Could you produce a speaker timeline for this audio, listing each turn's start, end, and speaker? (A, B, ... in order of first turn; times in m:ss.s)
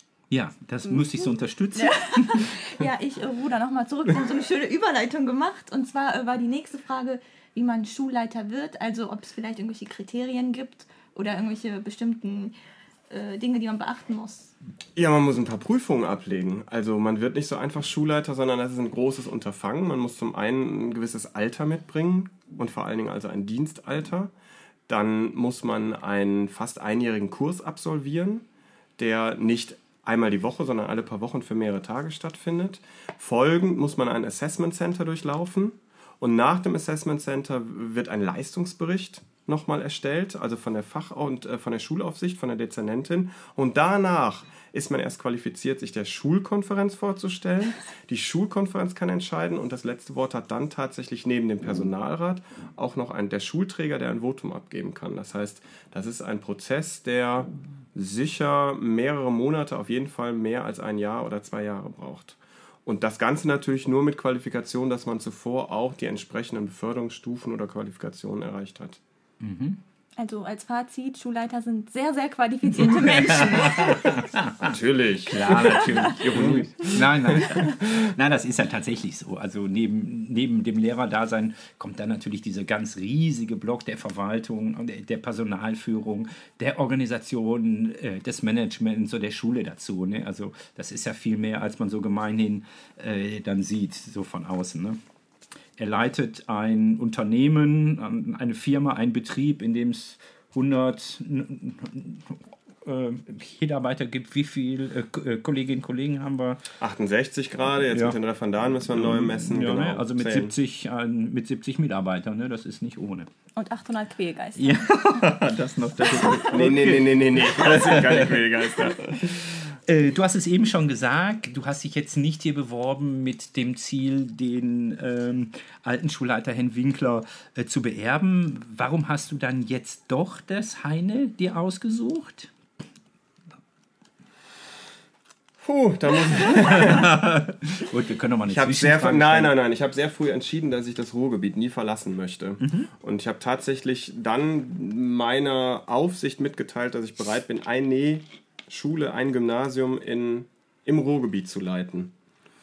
0:00.3-0:02.5 A
0:00.9-0:12.5 B
0:13.1-0:14.5 B
0:15.0-0:24.3 C
0:24.9-0:28.4 C
0:29.0-1:09.0 C
1:09.4-1:09.8 A
1:10.2-1:14.1 B
1:13.2-1:14.7 A
1:14.6-1:17.9 C
1:15.3-1:35.0 A
1:35.8-1:46.6 A
1:46.8-1:50.5 C
1:47.9-1:48.2 A
1:48.9-1:53.3 A
1:53.6-1:55.2 B
1:54.6-1:58.9 A
1:56.1-1:59.6 C
1:59.7-2:12.5 A
2:15.6-2:17.2 C
2:16.5-2:19.5 A
2:18.5-2:32.1 C
2:22.6-2:22.9 A